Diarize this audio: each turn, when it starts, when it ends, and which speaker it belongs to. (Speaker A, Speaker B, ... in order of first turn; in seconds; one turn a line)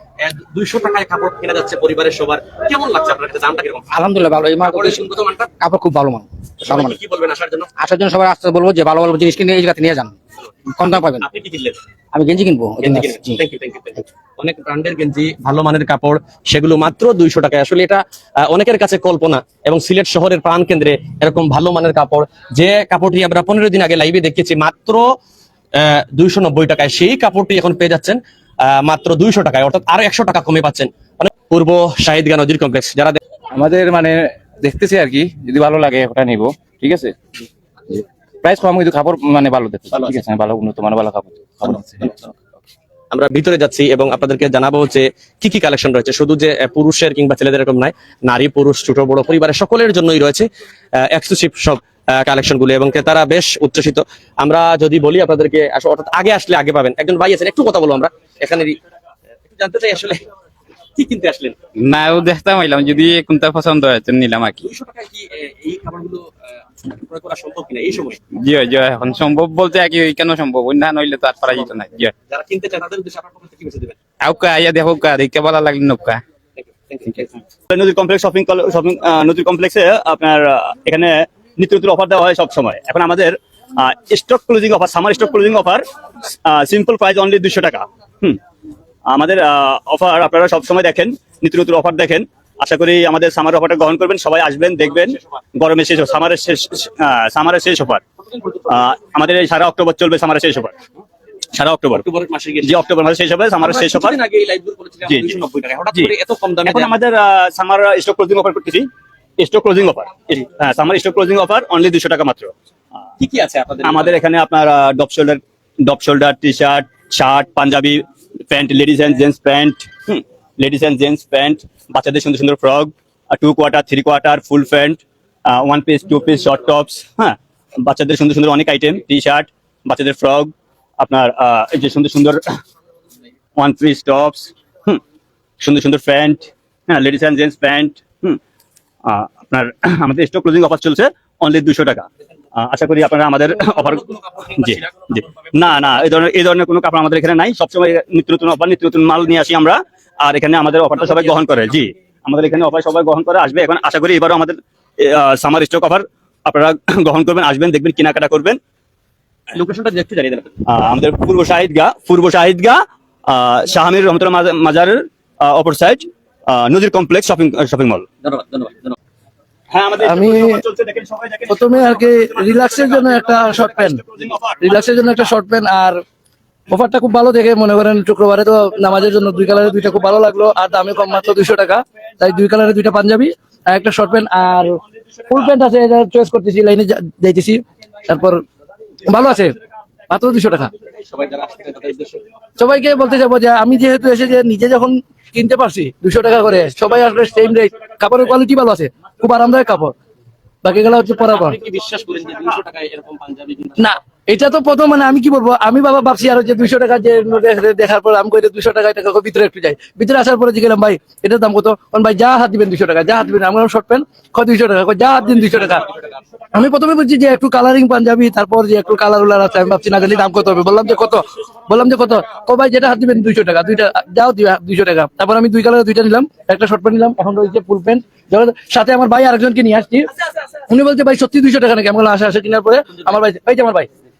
Speaker A: 0.2-3.9
Speaker B: 3.9-7.0
Speaker A: 4.7-5.5
Speaker A: 6.6-7.7
Speaker B: 7.8-10.2
Speaker B: 10.7-11.3
Speaker A: 11.1-11.8
Speaker B: 12.1-13.4
Speaker A: 12.8-25.1
Speaker A: 25.7-33.2
Speaker C: 33.5-37.1
Speaker C: 37.9-42.2
Speaker A: 43.1-58.8
Speaker A: 59.5-60.2
Speaker A: 61.0-61.5
Speaker D: 61.8-64.6
Speaker A: 64.6-66.3
Speaker A: 67.0-68.2
Speaker D: 68.4-72.1
Speaker A: 72.3-73.9
Speaker D: 74.2-76.2
Speaker A: 76.6-77.3
Speaker E: 77.7-85.8
Speaker E: 86.4-88.4
Speaker E: 89.1-98.0
Speaker E: 98.7-100.7
Speaker E: 101.5-102.0
Speaker A: 101.9-102.8
Speaker E: 102.6-104.2
Speaker A: 103.6-106.9
Speaker E: 105.1-105.4
Speaker E: 106.7-108.9
Speaker E: 109.4-112.5
Speaker A: 113.2-114.2
Speaker E: 113.8-132.4
Speaker E: 133.6-135.0
Speaker E: 135.6-138.4
Speaker E: 139.1-144.0
Speaker A: 144.0-144.7
Speaker E: 144.6-158.6
Speaker A: 159.5-160.6
Speaker E: 160.7-168.1
Speaker A: 168.2-168.9
Speaker E: 169.7-172.1
Speaker F: 170.0-170.6
Speaker F: 171.5-174.0
Speaker E: 172.7-174.5
Speaker F: 174.6-176.0
Speaker F: 176.7-188.4
Speaker F: 189.1-189.5
Speaker F: 190.1-190.7
Speaker A: 191.1-192.2
Speaker F: 192.6-199.9
Speaker F: 200.6-201.6
Speaker A: 201.2-203.9
Speaker F: 203.8-215.8
Speaker F: 216.5-233.9